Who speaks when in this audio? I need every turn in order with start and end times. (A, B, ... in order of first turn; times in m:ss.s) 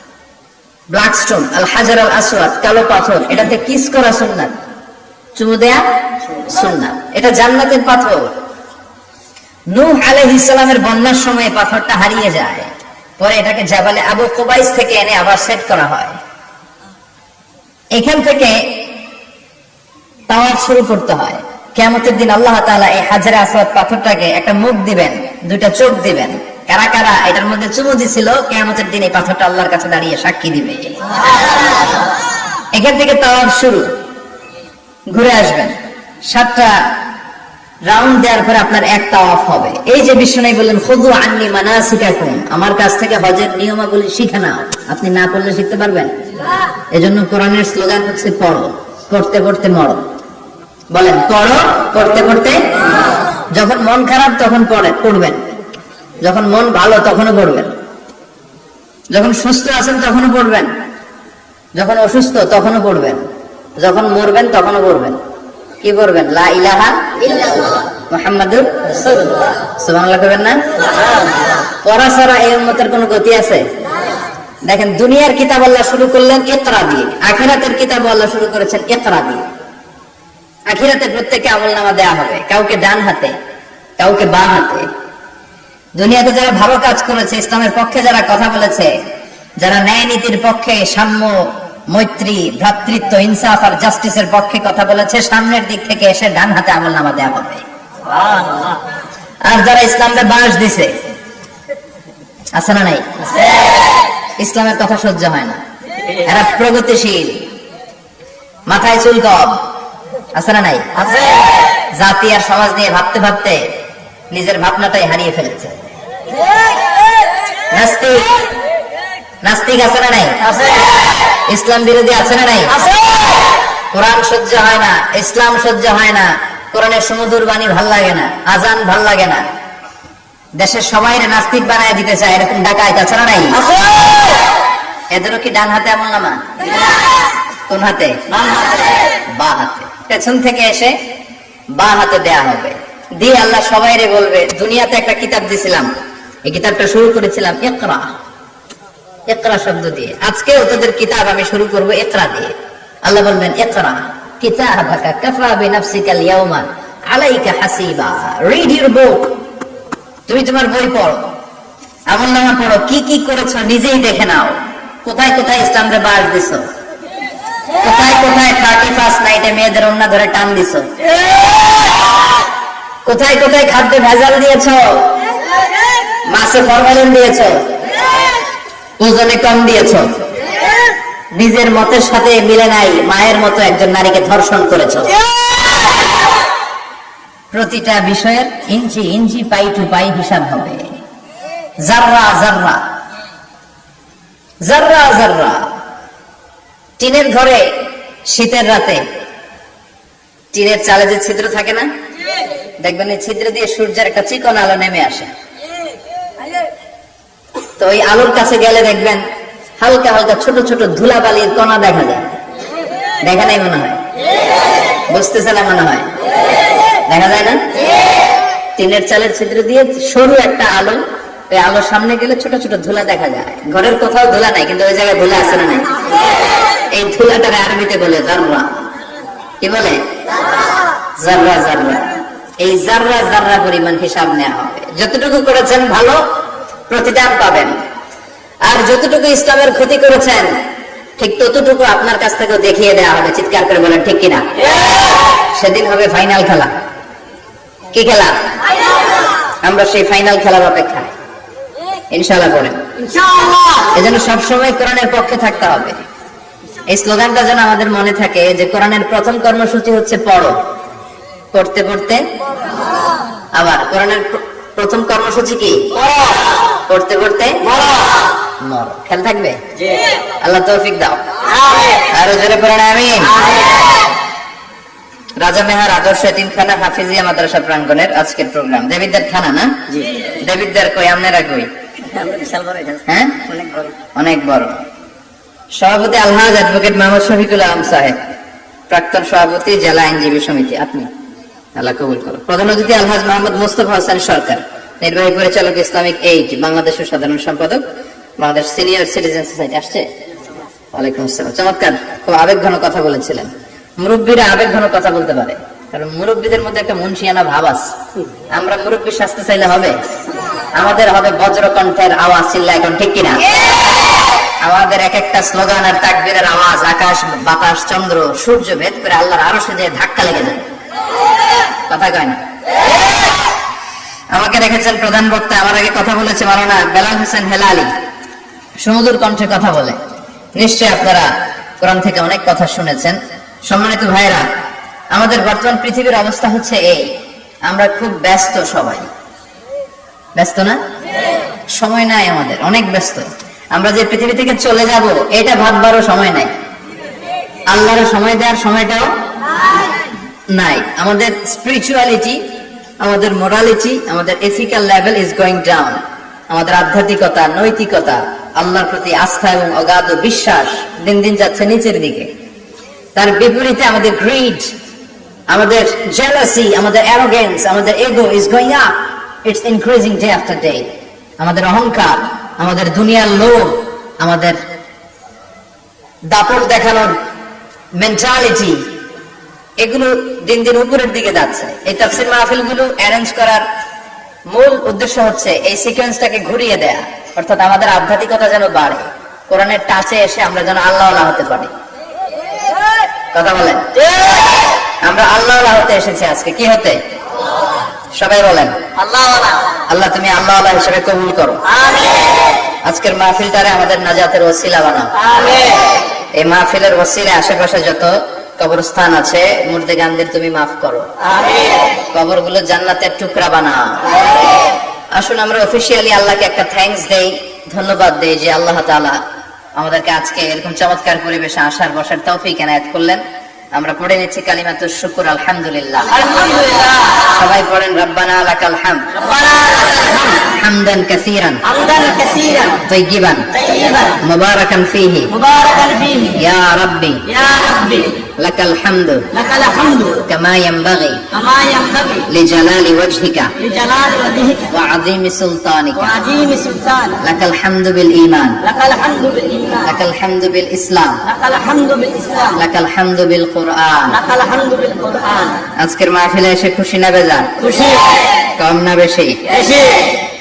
0:00.9-0:04.6 A
0:05.4-0:05.8 A
0:06.4-0:08.3 A
0:09.7-0:16.2 A
0:17.9-0:18.6 A
0:20.3-0:30.9 A
0:32.7-0:33.9 A
0:35.1-0:35.8 A
0:36.3-0:36.8 A
0:37.9-0:46.1 A
0:46.9-0:50.0 A
0:50.9-0:52.7 A
0:53.5-0:55.4 A
0:56.2-0:57.7 A
0:59.1-1:00.7 A
1:01.8-1:03.2 A
1:03.8-1:05.2 A
1:05.8-1:07.5 A
1:08.1-1:10.6 A
1:11.8-1:13.6 A
1:14.7-1:19.4 A
1:20.7-1:23.4 A
1:24.0-1:24.9 A
1:26.0-1:29.0 A
1:29.6-1:37.6 A
1:38.2-1:38.7 B
1:39.4-1:41.0 A
1:42.5-1:43.1 A
1:44.4-1:45.6 A
1:46.2-1:47.5 A
1:48.7-1:49.6 A
1:50.3-1:50.9 A
1:51.9-1:53.7 A
1:54.3-1:55.9 A
1:57.7-1:58.4 A
1:59.4-2:00.4 A
2:00.6-2:00.9 B
2:01.5-2:02.8 A
2:03.9-2:09.5 A
2:10.6-2:13.6 A
2:13.7-2:14.2 B
2:15.1-2:16.4 A
2:17.7-2:18.2 A
2:19.3-2:21.0 A
2:21.8-2:25.9 A
2:26.4-2:28.1 A
2:29.3-2:39.3 A
2:40.3-2:41.3 A
2:42.1-2:46.6 A
2:47.8-2:50.9 A
2:53.0-2:55.1 A
2:56.3-2:57.6 A
2:59.0-3:00.2 A
3:01.4-3:05.2 A
3:07.5-3:10.9 A
3:11.8-3:12.8 A
3:14.6-3:15.7 A
3:17.0-3:19.0 A
3:20.5-3:21.9 A
3:22.8-3:25.3 A
3:27.8-3:29.2 A
3:29.8-3:32.3 A
3:33.2-3:34.0 A
3:35.1-3:36.1 A
3:37.1-3:37.6 A
3:38.8-3:45.9 A
3:46.9-3:48.9 A
3:49.6-3:50.0 A
3:51.2-3:56.2 A
3:56.9-3:57.7 A
3:58.6-4:00.5 A
4:01.2-4:04.5 A
4:05.4-4:06.7 A
4:07.9-4:08.4 A
4:09.6-4:11.1 A
4:12.1-4:12.8 A
4:13.9-4:16.0 A
4:16.9-4:20.6 A
4:21.5-4:22.2 A
4:23.5-4:26.0 A
4:26.9-4:27.7 A
4:28.6-4:29.6 A
4:30.4-4:31.2 A
4:31.7-4:31.9 B
4:32.1-4:33.4 A
4:33.4-4:33.7 B
4:35.4-4:41.7 A
4:42.1-4:43.9 B
4:43.1-4:43.5 A
4:44.2-4:44.8 A
4:45.8-4:48.2 A
4:48.9-4:51.1 A
4:51.8-4:57.8 A
4:58.4-5:00.1 A
5:00.9-5:07.9 A
5:08.5-5:10.0 A
5:10.8-5:13.4 A
5:14.6-5:20.7 A
5:21.9-5:22.4 A
5:24.3-5:27.9 A
5:28.8-5:30.0 A
5:30.6-5:34.5 A
5:35.1-5:37.1 A
5:37.7-5:39.1 A
5:40.4-5:40.8 A
5:41.7-5:46.5 A
5:47.7-5:49.1 A
5:50.5-5:52.4 A
5:53.0-6:02.3 A
6:03.2-6:04.7 A
6:05.5-6:10.9 A
6:11.4-6:14.6 A
6:16.3-6:17.2 A
6:18.0-6:18.8 A
6:19.8-6:23.7 A
6:24.5-6:31.7 A
6:33.3-6:33.9 A
6:35.0-6:37.0 A
6:38.1-6:38.8 A
6:39.0-6:39.6 B
6:39.9-6:41.7 A
6:41.7-6:42.4 B
6:42.8-6:45.2 A
6:45.2-6:45.9 B
6:46.4-6:51.1 A
6:51.4-6:51.8 B
6:52.1-6:54.2 A
6:55.1-6:59.2 A
6:59.8-7:03.2 A
7:03.7-7:06.4 A
7:06.2-7:07.2 B
7:07.2-7:09.1 A
7:09.2-7:10.4 B
7:10.3-7:11.7 A
7:11.7-7:12.8 B
7:12.8-7:13.5 A
7:13.6-7:14.2 B
7:14.2-7:15.3 A
7:15.4-7:16.4 B
7:16.3-7:17.2 A
7:17.3-7:18.2 B
7:18.4-7:19.3 A
7:19.4-7:20.2 B
7:20.2-7:21.3 A
7:21.3-7:22.2 B
7:22.2-7:23.5 A
7:23.6-7:24.7 B
7:24.6-7:26.2 A
7:26.1-7:27.2 B
7:27.2-7:28.6 A
7:28.6-7:29.9 B
7:29.8-7:31.3 A
7:31.3-7:32.6 B
7:32.6-7:34.2 A
7:34.2-7:35.6 B
7:35.8-7:37.6 A
7:37.6-7:38.2 B
7:38.6-7:39.6 A
7:39.5-7:40.0 B